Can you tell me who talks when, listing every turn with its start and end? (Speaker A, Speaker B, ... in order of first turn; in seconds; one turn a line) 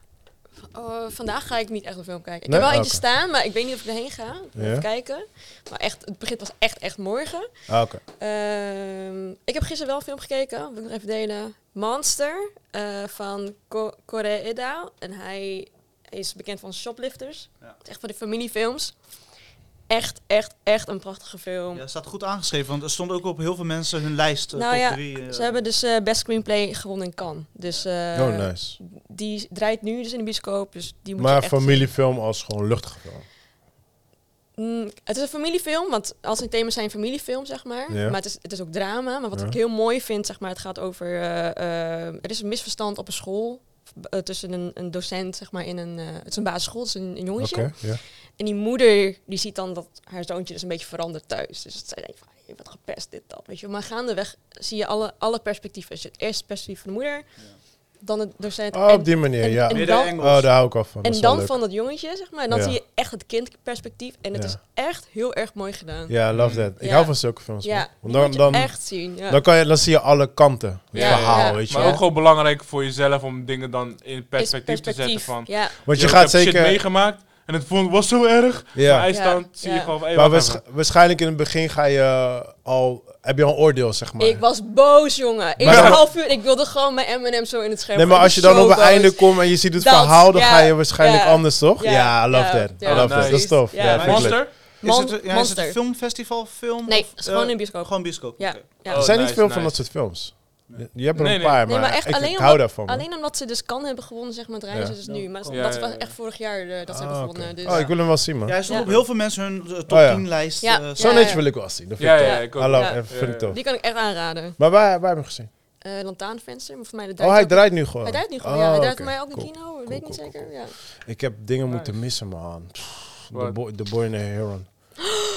Speaker A: 0.7-19.1
Speaker B: 2.5-3.0
Speaker B: 4.5-4.8
Speaker B: 7.7-8.0
Speaker A: 19.9-21.8
Speaker C: 21.7-25.5
Speaker A: 24.5-31.9
Speaker B: 28.1-28.8
Speaker B: 31.2-33.2
Speaker A: 34.5-57.3
Speaker B: 37.9-38.2
Speaker B: 47.4-48.0
Speaker A: 58.0-69.4
Speaker B: 58.7-61.5
Speaker C: 59.7-60.5
Speaker B: 62.5-62.8
Speaker B: 64.3-64.6
Speaker B: 66.1-72.1
Speaker D: 66.3-66.7
Speaker D: 70.9-80.6
Speaker A: 70.9-72.0
Speaker A: 74.4-75.8
Speaker B: 75.8-76.8
Speaker B: 78.7-79.1
Speaker A: 79.1-79.9
Speaker B: 80.1-84.4
Speaker A: 84.2-95.8
Speaker B: 85.6-86.0
Speaker D: 85.6-86.0
Speaker B: 87.9-94.5
Speaker D: 92.8-94.5
Speaker C: 93.8-98.7
Speaker A: 96.8-99.1
Speaker D: 98.8-99.8
Speaker B: 99.0-103.0
Speaker D: 101.1-101.7
Speaker A: 101.7-108.9
Speaker C: 105.0-105.8
Speaker D: 105.5-106.1
Speaker B: 106.9-109.0
Speaker C: 107.6-111.3
Speaker B: 109.9-113.6
Speaker A: 110.6-114.6
Speaker D: 112.0-113.5
Speaker B: 114.6-115.5
Speaker A: 115.8-120.8
Speaker B: 117.2-125.1
Speaker D: 121.7-122.0
Speaker D: 123.3-123.6